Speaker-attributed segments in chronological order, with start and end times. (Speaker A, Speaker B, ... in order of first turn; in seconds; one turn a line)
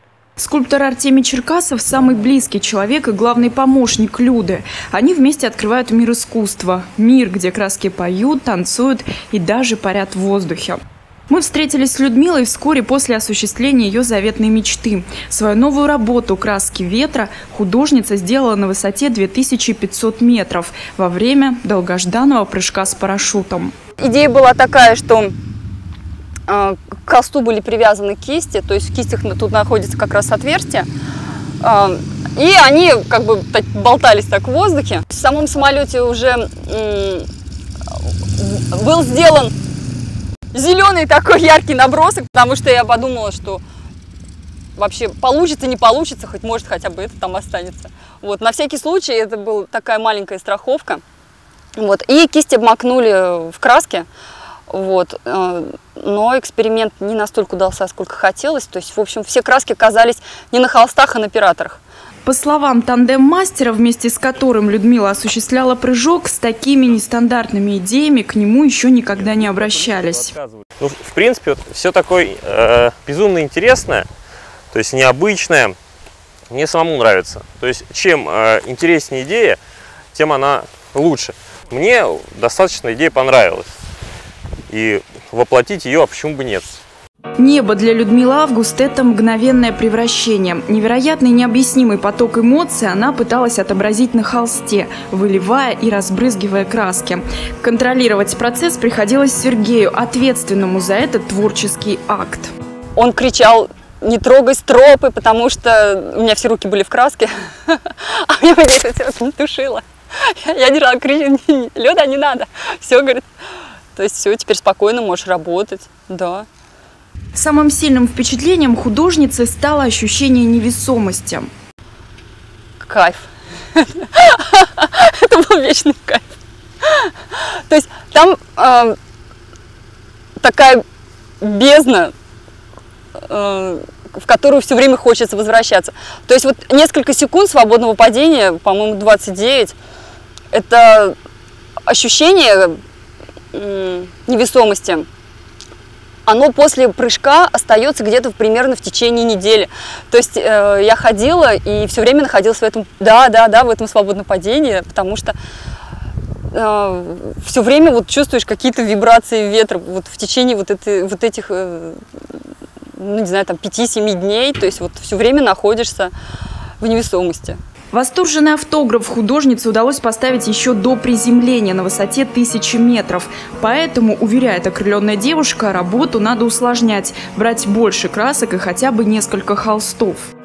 Speaker A: 0.4-23.7
Speaker B: 24.0-25.3
Speaker B: 26.5-30.9
Speaker B: 31.6-37.3
Speaker B: 37.9-39.5
Speaker B: 40.5-43.6
Speaker B: 44.8-51.0
Speaker B: 51.8-54.1
Speaker B: 54.7-61.8
Speaker A: 62.2-70.4
Speaker C: 69.2-74.1
Speaker C: 74.7-75.8
Speaker C: 76.5-79.6
Speaker C: 80.1-83.7
Speaker C: 84.7-86.8
Speaker A: 87.4-102.5
Speaker B: 103.0-113.3
Speaker B: 114.0-116.5
Speaker A: 117.3-121.5
Speaker B: 122.8-129.0
Speaker B: 130.4-130.8
Speaker B: 131.4-132.1
Speaker B: 133.2-139.8
Speaker B: 140.5-141.2
Speaker B: 141.9-142.8
Speaker B: 143.5-145.1
Speaker B: 146.3-155.3
Speaker B: 156.5-166.1
Speaker B: 166.8-167.6
Speaker A: 167.9-180.3